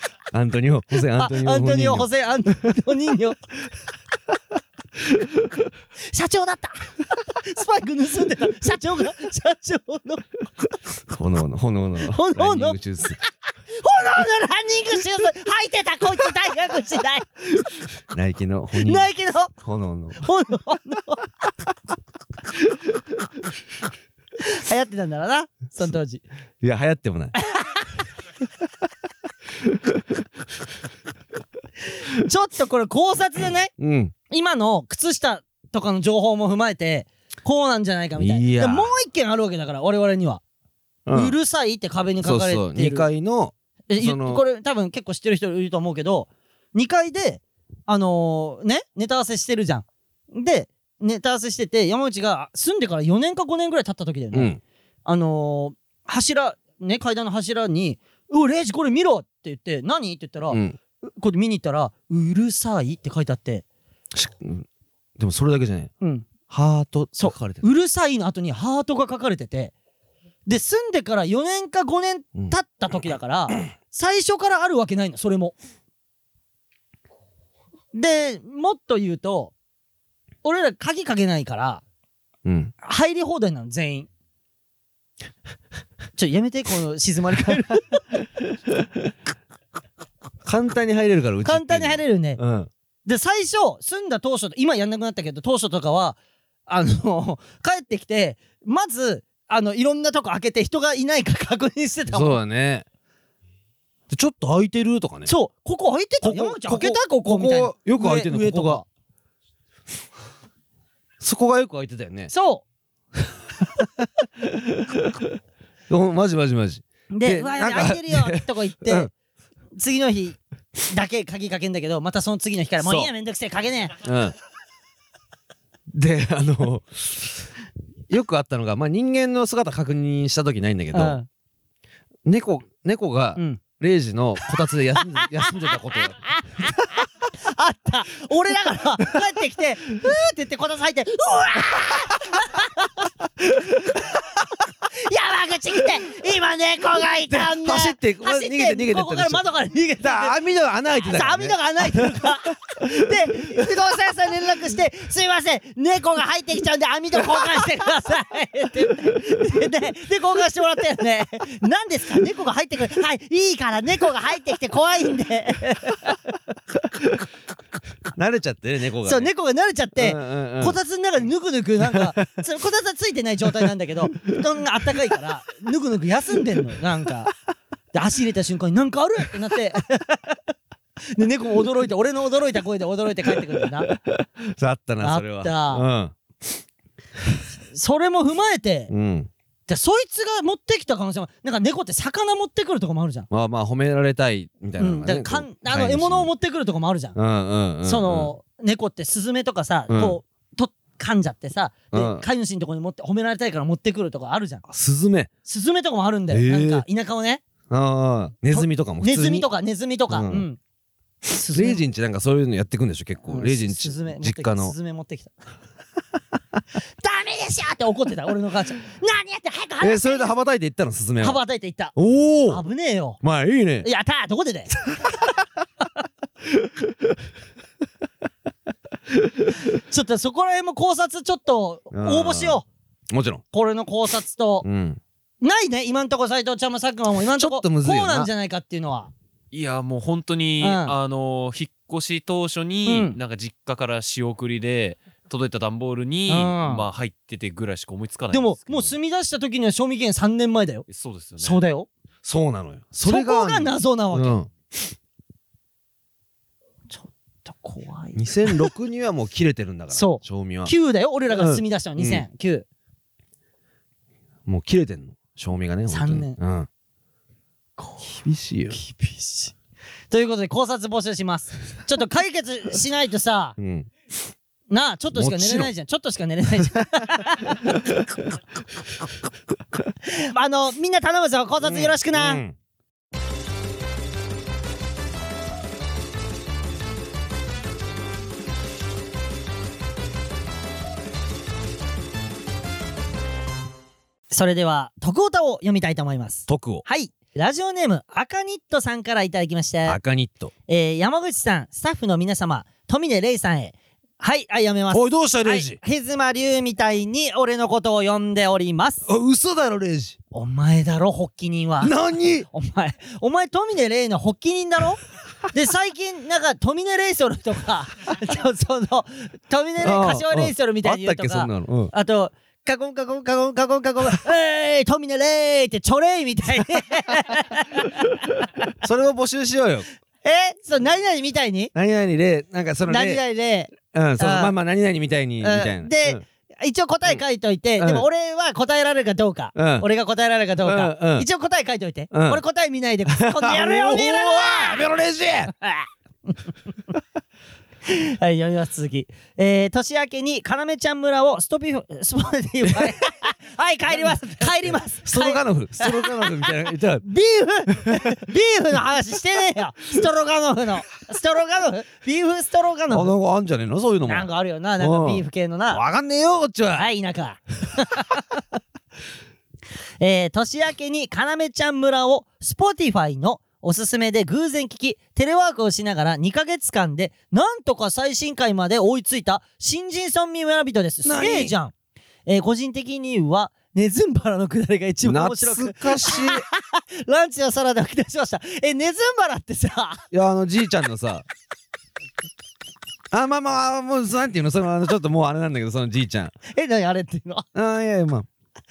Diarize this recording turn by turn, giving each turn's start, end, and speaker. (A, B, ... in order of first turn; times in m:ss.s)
0:00.3-0:02.1 A
0:01.1-0:03.4 B
0:06.1-0:10.3 B
0:11.1-0:13.2 A
0:12.0-0:12.8 B
0:13.7-0:17.3 B
0:18.1-0:20.3 A
0:18.8-0:19.5 B
0:20.2-0:21.2 B
0:24.4-0:26.2 B
0:26.6-0:27.3 A
0:27.4-0:27.9 B
0:29.7-0:30.0 A
0:32.0-0:33.7 B
0:33.8-0:34.1 A
0:34.3-0:40.4 B
0:38.2-0:38.9 A
0:41.1-0:41.4 A
0:41.1-0:43.1 B
0:42.2-0:44.4 A
0:43.9-0:54.5 B
0:54.3-0:54.6 A
0:55.0-1:03.6 B
1:00.5-1:00.8 A
1:04.1-1:04.7 A
1:05.2-1:05.9 A
1:06.0-1:06.3 B
1:06.5-1:07.6 A
1:07.2-1:09.7 B
1:10.5-1:15.6 B
1:12.4-1:13.0 A
1:17.9-1:19.5 B
1:20.4-1:21.8 B
1:22.4-1:22.7 A
1:22.8-1:24.1 B
1:26.2-1:28.0 B
1:30.4-1:32.7 A
1:31.4-1:32.4 B
1:33.1-1:42.4 B
1:42.1-1:42.9 A
1:44.1-1:45.3 A
1:45.3-1:48.9 B
1:46.2-1:48.8 A
1:51.2-1:52.3 A
1:52.3-1:52.6 B
1:53.8-1:55.3 A
1:55.9-1:59.1 A
1:57.1-1:59.1 B
1:59.8-2:04.0 B
2:02.8-2:03.1 A
2:04.0-2:04.4 A
2:05.9-2:07.5 A
2:08.1-2:11.2 A
2:10.9-2:11.3 B
2:12.2-2:16.7 A
2:13.4-2:13.6 B
2:15.2-2:15.7 B
2:16.2-2:22.9 B
2:24.9-2:30.4 B
2:27.3-2:29.4 A
2:30.0-2:32.3 A
2:31.0-2:46.2 B
2:37.3-2:37.6 A
2:47.0-2:47.2 A
2:48.1-2:49.3 A
2:49.0-2:57.3 B
2:50.0-2:50.8 A
2:51.9-2:52.3 A
2:57.9-3:00.4 B
3:01.1-3:03.9 B
3:03.9-3:06.6 A
3:05.0-3:05.8 B
3:07.7-3:08.9 B
3:08.9-3:09.3 A
3:09.7-3:13.3 B
3:13.3-3:16.3 A
3:14.8-3:17.2 B
3:17.2-3:18.3 A
3:17.8-3:24.6 B
3:19.9-3:20.2 A
3:21.9-3:22.2 A
3:24.7-3:25.3 A
3:25.4-3:27.4 B
3:26.3-3:26.8 A
3:27.7-3:29.5 A
3:28.5-3:30.6 B
3:30.1-3:30.5 A
3:31.3-3:31.8 B
3:31.5-3:34.8 A
3:33.3-3:35.4 B
3:37.0-3:40.3 B
3:39.8-3:41.4 A
3:41.2-3:42.0 B
3:42.0-3:42.6 A
3:42.5-3:43.2 B
3:43.2-3:43.9 A
3:43.8-3:44.8 B
3:45.0-3:45.4 A
3:46.6-3:46.9 A
3:49.2-3:49.6 A
3:49.9-3:52.7 B
3:51.9-3:53.4 A
3:53.5-3:54.6 B
3:54.6-3:55.0 A
3:55.4-3:59.1 B
3:57.3-3:58.3 A
3:59.5-4:09.0 C
4:00.6-4:01.0 B
4:02.9-4:03.2 B
4:06.3-4:06.8 B
4:08.3-4:10.9 B
4:10.9-4:11.6 C
4:11.4-4:11.9 B
4:12.2-4:14.5 A
4:13.0-4:14.4 B
4:16.9-4:18.7 B
4:18.2-4:20.7 A
4:19.9-4:22.7 B
4:21.3-4:22.2 A
4:24.5-4:26.7 A
4:25.9-4:26.4 B
4:27.8-4:28.2 B
4:28.0-4:28.8 A
4:28.7-4:29.5 B
4:30.1-4:33.6 B
4:33.6-4:33.9 A
4:34.7-4:37.8 B
4:35.1-4:35.7 A
4:40.0-4:42.4 B
4:41.6-4:42.6 A
4:54.3-5:00.0 B
4:56.5-4:56.8 A
4:59.8-5:00.5 A
5:00.7-5:09.0 B
5:04.9-5:05.8 A
5:09.1-5:10.2 A
5:10.3-5:12.0 B
5:11.8-5:12.5 A
5:12.5-5:15.0 B
5:15.5-5:28.6 B
5:19.8-5:21.9 A
5:28.7-5:29.9 A
5:30.2-5:31.7 B
5:31.8-5:33.2 A
5:32.9-5:34.5 B
5:33.8-5:36.2 A
5:35.4-5:44.8 B
5:37.8-5:38.1 A
5:39.6-5:39.9 A
5:40.6-5:41.3 A
5:42.1-5:42.4 A
5:43.1-5:45.5 A
5:45.6-5:46.4 B
5:47.8-5:56.5 B
5:55.0-5:57.0 A
5:57.0-6:03.1 B
5:57.7-5:58.2 A
6:02.9-6:06.9 A
6:04.1-6:05.8 B
6:06.8-6:08.4 B
6:10.0-6:21.7 B
6:21.0-6:21.5 A
6:22.3-6:30.0 B
6:25.0-6:26.4 A
6:30.1-6:31.2 A
6:33.1-6:36.3 A
6:36.5-6:37.5 B
6:37.6-6:38.3 A